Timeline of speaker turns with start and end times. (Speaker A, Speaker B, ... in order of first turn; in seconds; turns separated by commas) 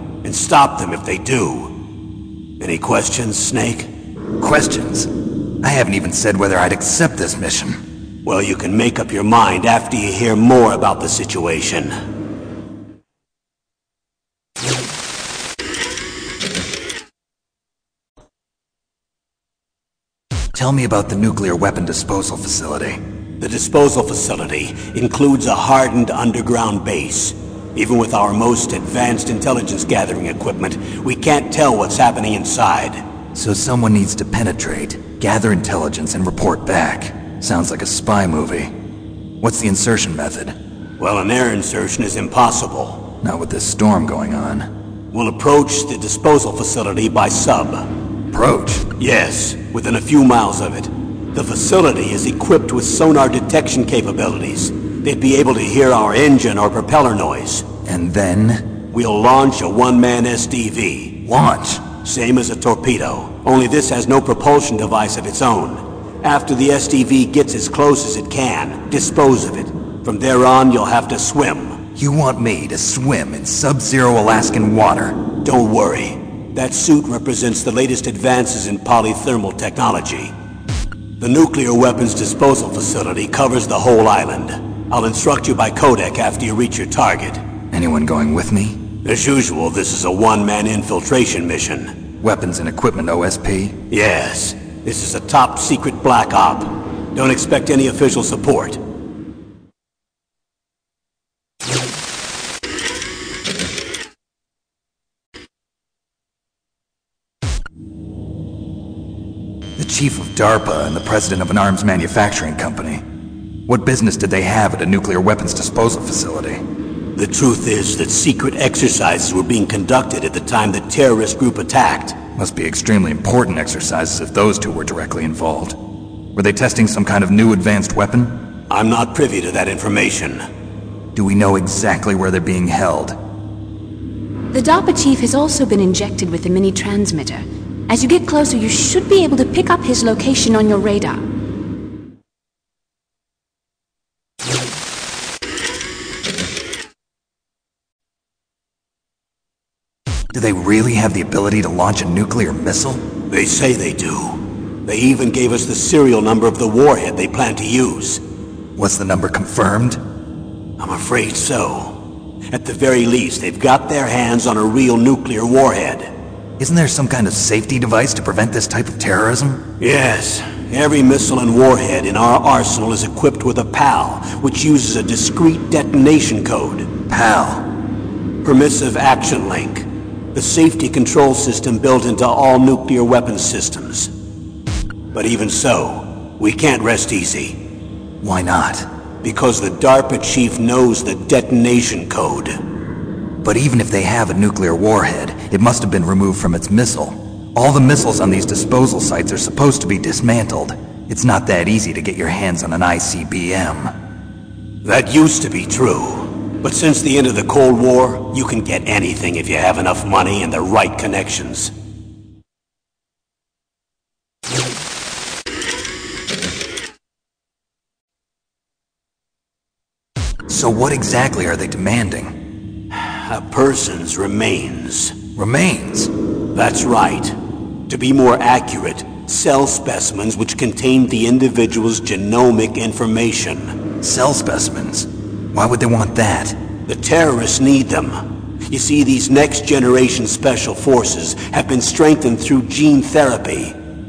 Speaker A: 0.2-1.7, Speaker A: 2.6-3.9, Speaker B: 4.4-5.1, Speaker B: 5.6-7.8, Speaker A: 8.2-11.9, Speaker B: 20.5-23.0, Speaker A: 23.4-33.0, Speaker B: 33.3-38.7, Speaker B: 39.4-40.5, Speaker A: 41.0-43.0, Speaker B: 43.2-44.7, Speaker A: 45.1-47.9, Speaker B: 48.3-48.9, Speaker A: 49.0-57.7, Speaker B: 57.8-58.7, Speaker A: 58.9-61.1, Speaker B: 61.2-61.9, Speaker A: 62.0-71.8, Speaker B: 72.0-75.2, Speaker A: 75.4-80.3, Speaker A: 81.2-87.4, Speaker B: 87.7-88.8, Speaker A: 89.0-91.9, Speaker B: 92.2-93.8, Speaker A: 93.9-98.8, Speaker B: 109.8-113.0, Speaker B: 113.7-116.6, Speaker A: 117.2-122.2, Speaker B: 122.4-125.8, Speaker B: 126.3-128.4, Speaker A: 128.7-130.4, Speaker B: 131.1-133.2, Speaker C: 134.5-141.2, Speaker B: 150.3-153.0, Speaker A: 153.3-158.2, Speaker B: 158.8-160.0, Speaker A: 160.8-162.0, Speaker A: 162.5-166.1, Speaker B: 166.6-169.6, Speaker A: 169.8-176.9, Speaker B: 177.1-177.7, Speaker A: 178.4-184.1, Speaker A: 185.1-187.6, Speaker B: 188.2-188.9, Speaker A: 189.2-192.6, Speaker B: 193.4-203.9, Speaker A: 204.8-211.7, Speaker B: 220.5-222.3, Speaker A: 222.9-225.2, Speaker B: 225.3-226.1, Speaker A: 226.5-227.3, Speaker A: 227.9-233.7, Speaker B: 234.0-236.6, Speaker A: 236.9-243.8